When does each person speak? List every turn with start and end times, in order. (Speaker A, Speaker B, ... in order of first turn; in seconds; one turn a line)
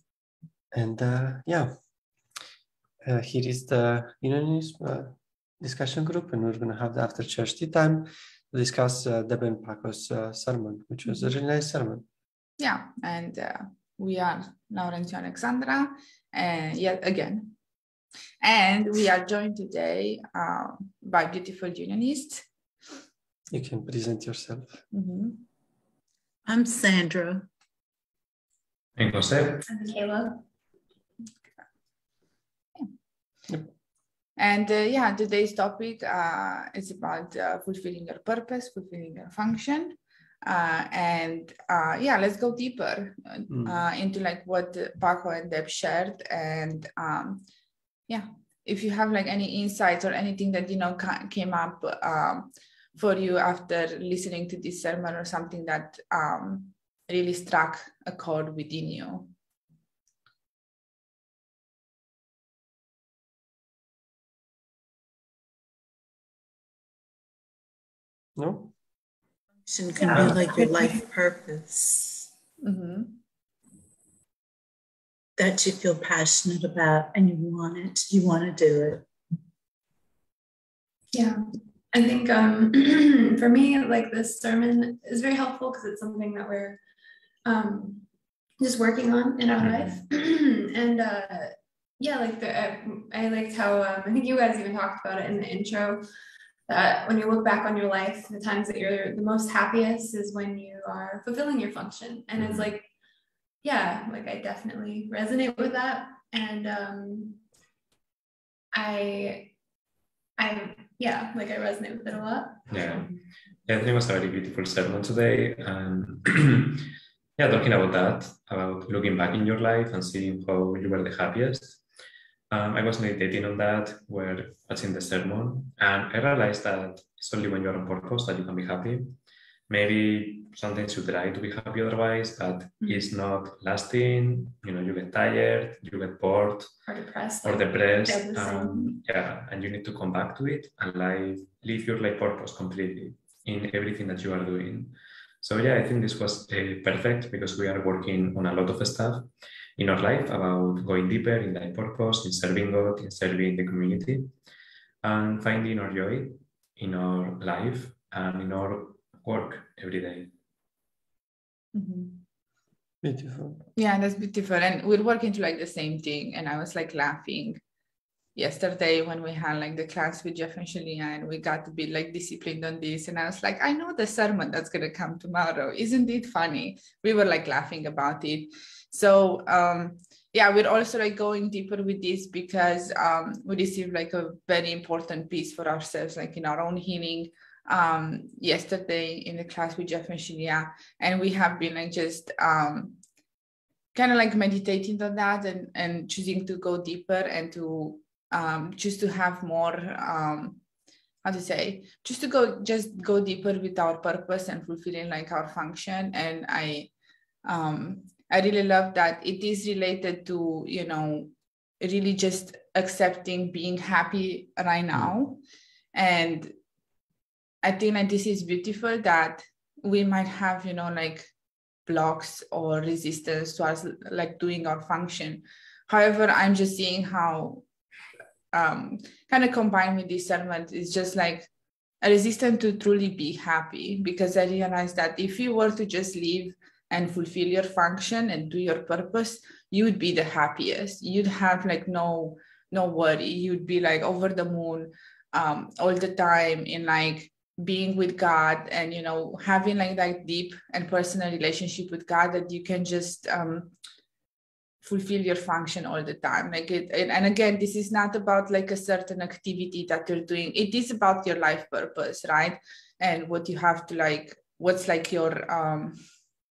Speaker A: 0.7-1.8
Speaker A: 3.0-12.1
Speaker B: 11.1-11.3
Speaker B: 12.6-17.5
Speaker B: 18.4-22.5
Speaker A: 23.5-24.8
Speaker B: 24.9-25.5
Speaker C: 26.5-27.5
Speaker D: 29.0-29.6
Speaker E: 29.7-30.4
Speaker B: 34.4-47.4
Speaker A: 43.5-43.8
Speaker B: 48.1-59.3
Speaker A: 68.4-68.7
Speaker C: 69.7-72.3
Speaker B: 70.1-70.7
Speaker B: 72.6-73.2
Speaker C: 75.4-79.0
Speaker E: 81.1-86.8
Speaker E: 87.5-88.0
Speaker E: 88.6-96.0
Speaker D: 89.5-90.0
Speaker E: 96.7-102.9
Speaker D: 102.4-102.7
Speaker E: 103.6-107.4
Speaker E: 108.7-109.5
Speaker E: 110.4-113.1
Speaker D: 112.7-113.1
Speaker D: 113.7-121.8
Speaker D: 122.5-129.2
Speaker D: 129.7-136.8
Speaker E: 132.8-133.1
Speaker E: 136.9-139.0
Speaker D: 137.4-154.3
Speaker D: 155.0-160.3
Speaker B: 161.7-162.2
Speaker A: 163.0-163.6
Speaker B: 163.8-167.6
Speaker B: 168.3-193.0
Speaker B: 193.9-200.6
Speaker B: 201.2-206.9
Speaker B: 207.4-215.4
Speaker B: 215.9-216.5
Speaker B: 217.6-221.3
Speaker B: 221.9-227.7
Speaker B: 228.5-231.5
Speaker B: 232.0-253.7
Speaker B: 254.8-266.0